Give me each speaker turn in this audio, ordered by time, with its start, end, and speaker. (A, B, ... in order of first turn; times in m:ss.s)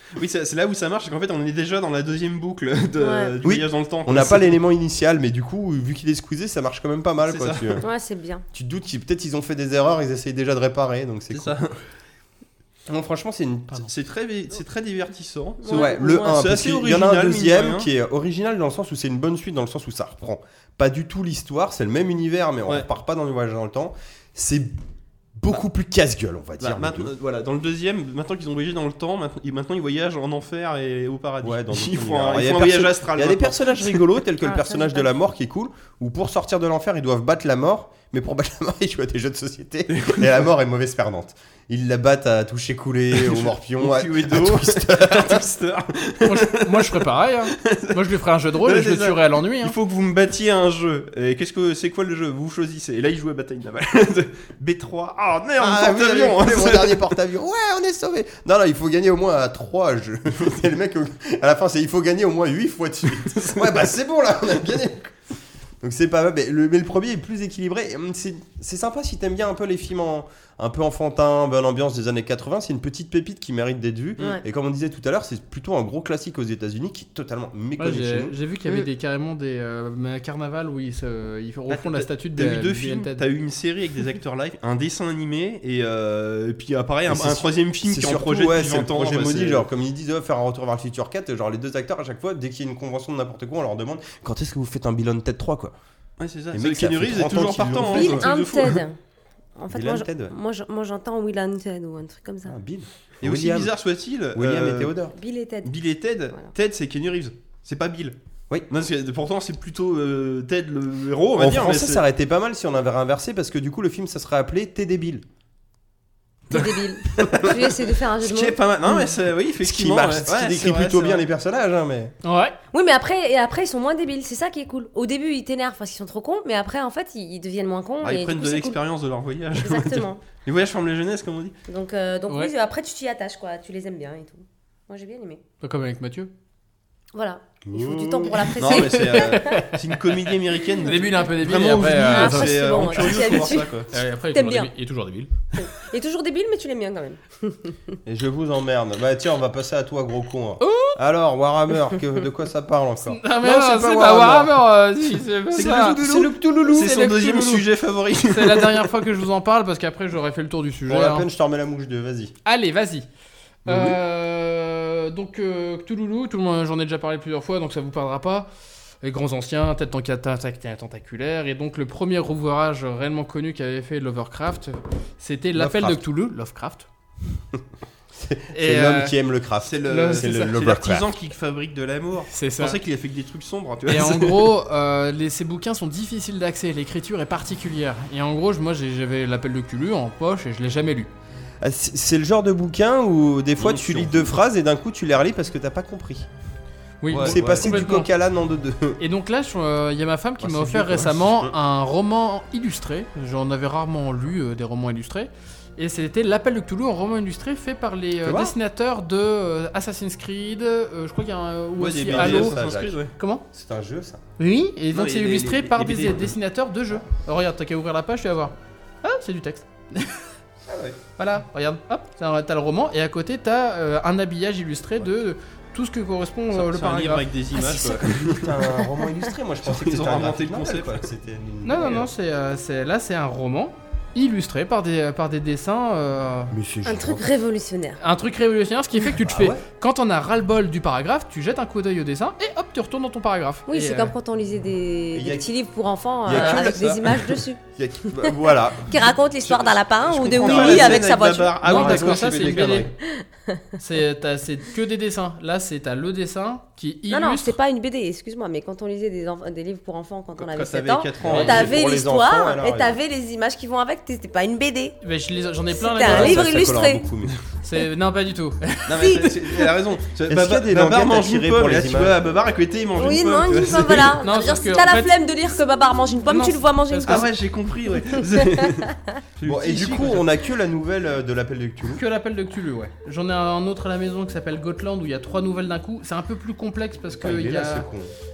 0:00.1-0:04.6 A
0:03.0-0:03.3 B
0:03.4-0:07.9 C
0:07.2-0:07.8 A
0:07.8-0:08.4 B
0:08.5-0:11.6 C
0:11.3-0:11.8 A
0:12.9-0:13.9 C
0:13.9-0:17.9 A
0:15.6-0:16.4 B
0:15.7-0:24.8 C
0:25.4-0:27.1 C
0:26.6-0:34.0 A
0:31.4-0:45.4 C
0:34.4-0:35.1 B
0:39.9-0:40.5 A
0:43.1-0:48.0 A
0:46.2-0:49.8 D
0:48.6-0:57.2 A
0:55.6-1:05.2 C
1:03.2-1:03.6 A
1:05.8-1:18.3 C
1:17.8-1:23.2 D
1:21.7-1:29.7 A
1:27.0-1:35.7 C
1:36.2-1:38.8 A
1:36.5-1:38.3 C
1:37.8-1:39.0 B
1:39.6-1:42.5 B
1:39.7-1:40.3 C
1:42.4-1:43.7 C
1:43.2-1:44.9 A
1:44.3-1:45.1 C
1:45.1-1:45.7 B
1:45.6-1:48.2 A
1:48.7-1:52.0 A
1:51.4-1:55.2 C
1:56.5-1:58.6 B
1:56.5-2:01.2 A
1:59.6-2:02.1 C
2:02.2-2:02.6 D
2:02.7-2:08.8 B
2:08.0-2:11.6 A
2:09.6-2:10.2 B
2:11.7-2:15.4 B
2:15.6-2:16.3 D
2:17.1-2:19.7 B
2:17.6-2:18.9 C
2:18.6-2:23.9 A
2:18.9-2:19.8 D
2:20.8-2:25.6 D
2:22.1-2:24.7 B
2:25.5-2:28.0 B
2:28.0-2:34.6 C
2:30.6-2:31.0 D
2:33.0-2:36.0 D
2:35.5-2:37.3 C
2:35.6-2:38.9 A
2:36.7-2:37.6 D
2:38.3-2:41.3 D
2:40.9-2:42.3 C
2:42.4-2:43.0 D
2:43.6-2:48.5 D
2:43.6-2:44.0 C
2:49.0-2:56.9 D
2:55.5-2:56.0 C
2:58.1-3:01.1 C
2:58.5-2:59.2 D
2:59.6-3:04.5 A
2:59.8-3:00.5 D
3:02.3-3:02.8 D
3:03.9-3:11.1 D
3:11.6-3:16.3 C
3:13.6-3:14.4 A
3:17.0-3:18.1 D
3:17.1-3:19.0 C
3:17.1-3:17.7 A
3:19.0-3:32.6 D
3:20.4-3:21.6 C
3:28.2-3:28.5 C
3:31.8-3:33.1 A
3:32.0-3:33.0 C
3:33.2-3:33.4 D
3:33.5-3:34.2 C
3:34.4-3:40.2 D
3:34.9-3:36.3 A
3:40.7-3:41.0 C
3:41.2-3:47.2 D
3:46.5-3:48.8 A
3:47.5-3:52.1 C
3:49.6-3:51.1 A
3:51.6-3:56.5 D
3:56.5-3:57.3 C
3:56.8-3:58.0 B
3:58.0-4:04.1 D
3:59.1-3:59.6 C
4:03.7-4:07.6 B
4:05.1-4:05.5 C
4:06.2-4:09.0 C
4:08.9-4:11.6 B
4:09.4-4:12.9 A
4:10.3-4:11.0 C
4:11.6-4:12.9 D
4:11.6-4:12.9 C
4:13.1-4:13.6 B
4:13.8-4:17.6 D
4:17.1-4:25.0 B
4:20.4-4:21.8 A
4:21.2-4:23.0 C
4:21.3-4:21.6 D
4:25.0-4:26.7 D
4:25.7-4:27.0 B
4:26.0-4:27.4 C
4:27.6-4:29.4 D
4:28.9-4:34.2 A
4:29.0-4:29.3 B
4:30.3-4:32.2 C
4:33.0-4:37.2 B
4:34.2-4:35.1 D
4:36.3-4:37.2 D
4:37.1-4:40.3 A
4:39.4-4:42.0 C
4:41.9-4:47.9 D
4:47.2-4:48.1 C